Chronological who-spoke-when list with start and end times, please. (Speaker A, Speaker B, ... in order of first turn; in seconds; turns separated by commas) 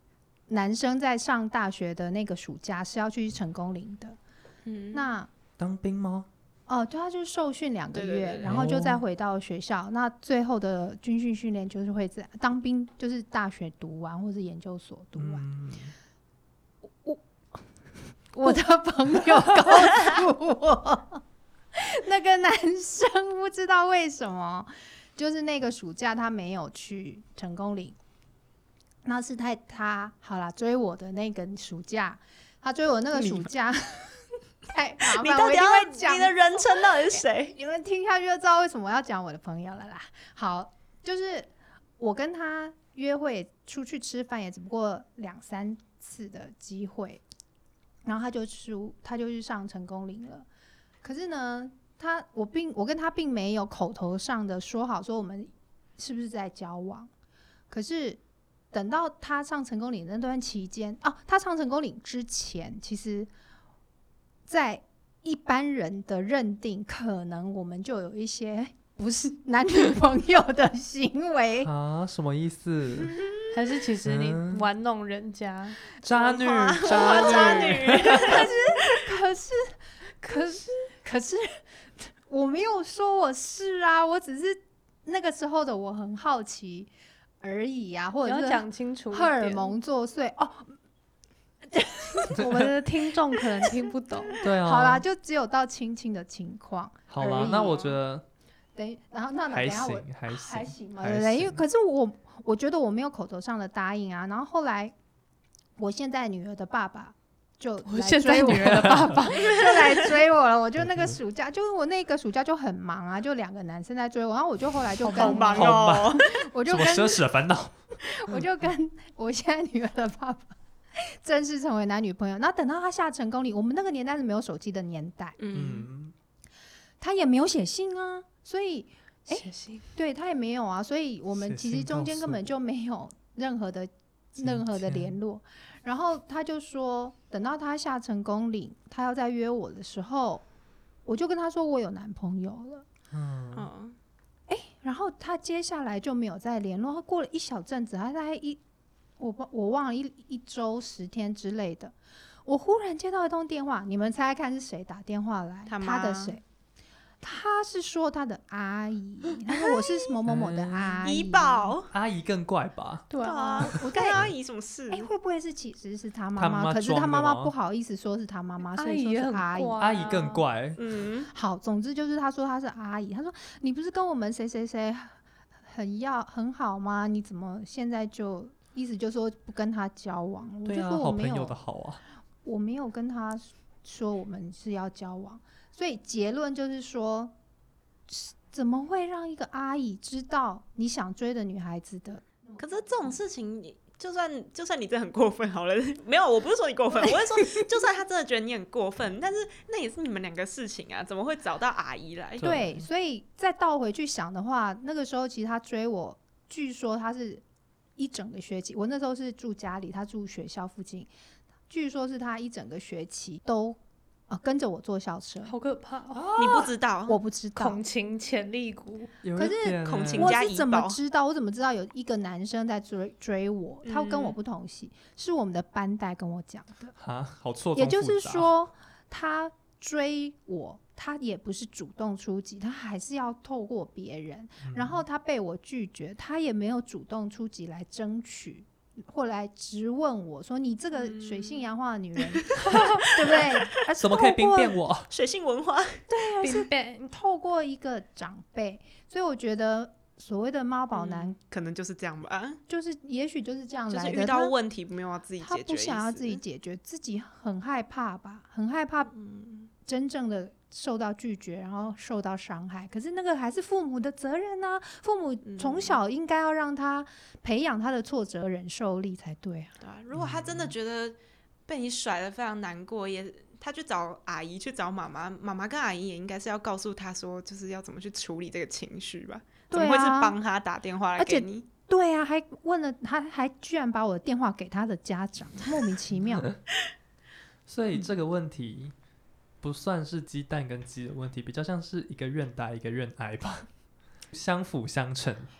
Speaker A: 0.5-4.2, Speaker B: 4.7-5.1, Speaker A: 4.9-5.3, Speaker C: 5.6-6.3, Speaker A: 6.7-15.4, Speaker B: 7.9-8.6, Speaker C: 8.4-9.0, Speaker C: 15.2-15.9, Speaker A: 18.3-21.2, Speaker A: 21.7-27.9, Speaker A: 29.0-47.2, Speaker B: 33.1-33.5, Speaker B: 35.1-37.5, Speaker A: 48.0-50.5, Speaker A: 51.0-57.1, Speaker A: 57.7-58.2, Speaker A: 58.7-63.3, Speaker A: 64.5-71.7, Speaker C: 71.6-73.2, Speaker D: 73.5-75.8, Speaker C: 74.0-74.7, Speaker C: 76.0-78.5, Speaker B: 76.3-78.5, Speaker A: 76.9-86.9, Speaker A: 87.4-90.7, Speaker D: 88.2-89.7, Speaker A: 91.7-92.7, Speaker C: 92.3-92.7, Speaker D: 92.3-94.4, Speaker C: 94.4-95.0, Speaker A: 94.6-97.8, Speaker C: 97.1-98.2, Speaker B: 97.3-98.0, Speaker A: 98.8-104.9, Speaker C: 99.5-101.6, Speaker A: 105.8-117.2, Speaker D: 107.8-109.7, Speaker C: 108.6-109.2, Speaker B: 109.4-110.2, Speaker C: 110.8-111.2, Speaker D: 115.0-115.7, Speaker B: 115.1-116.3, Speaker C: 115.5-117.8, Speaker A: 118.0-125.4, Speaker B: 125.4-125.9, Speaker C: 125.5-126.1, Speaker A: 127.0-140.4, Speaker D: 129.3-129.9, Speaker C: 131.4-132.5, Speaker C: 134.4-135.2, Speaker A: 141.0-142.9, Speaker C: 143.1-143.7, Speaker B: 143.5-143.9, Speaker A: 144.5-148.6, Speaker A: 149.2-151.9, Speaker A: 152.4-156.4, Speaker B: 155.7-156.4, Speaker A: 157.2-161.7, Speaker C: 160.3-161.0, Speaker B: 161.0-161.9, Speaker C: 161.9-163.1, Speaker D: 163.1-163.8, Speaker B: 163.2-165.1, Speaker A: 163.8-164.3, Speaker C: 163.8-164.3, Speaker A: 164.9-169.9, Speaker C: 166.3-167.5, Speaker D: 168.8-170.4, Speaker C: 169.8-170.8, Speaker B: 170.8-171.3, Speaker A: 171.3-181.6, Speaker C: 180.6-182.0, Speaker A: 182.4-187.3, Speaker A: 188.1-192.6, Speaker B: 192.6-202.5, Speaker C: 202.4-202.8, Speaker A: 202.4-207.4, Speaker A: 208.0-211.1, Speaker A: 211.7-215.5, Speaker D: 215.4-216.3, Speaker C: 216.1-216.7, Speaker B: 216.3-217.2, Speaker A: 217.1-217.8, Speaker D: 217.6-219.1, Speaker C: 219.2-220.3, Speaker A: 219.3-226.9, Speaker B: 219.8-221.0, Speaker B: 223.8-224.4, Speaker C: 226.9-228.5, Speaker A: 227.8-244.8, Speaker C: 234.6-235.0, Speaker B: 240.9-241.7, Speaker B: 242.4-243.7, Speaker C: 244.0-245.1, Speaker B: 245.1-246.0, Speaker A: 246.1-251.3, Speaker D: 246.4-247.1, Speaker B: 250.9-252.6, Speaker A: 252.7-254.5, Speaker B: 253.9-256.4, Speaker A: 255.4-259.1, Speaker B: 259.1-259.7, Speaker A: 259.8-269.7, Speaker B: 265.4-266.0, Speaker B: 269.8-271.1, Speaker C: 270.1-270.7, Speaker B: 271.7-281.6, Speaker A: 279.7-280.3, Speaker A: 281.2-286.5, Speaker C: 286.1-286.6, Speaker C: 287.7-288.9, Speaker C: 289.6-293.7, Speaker C: 294.3-295.5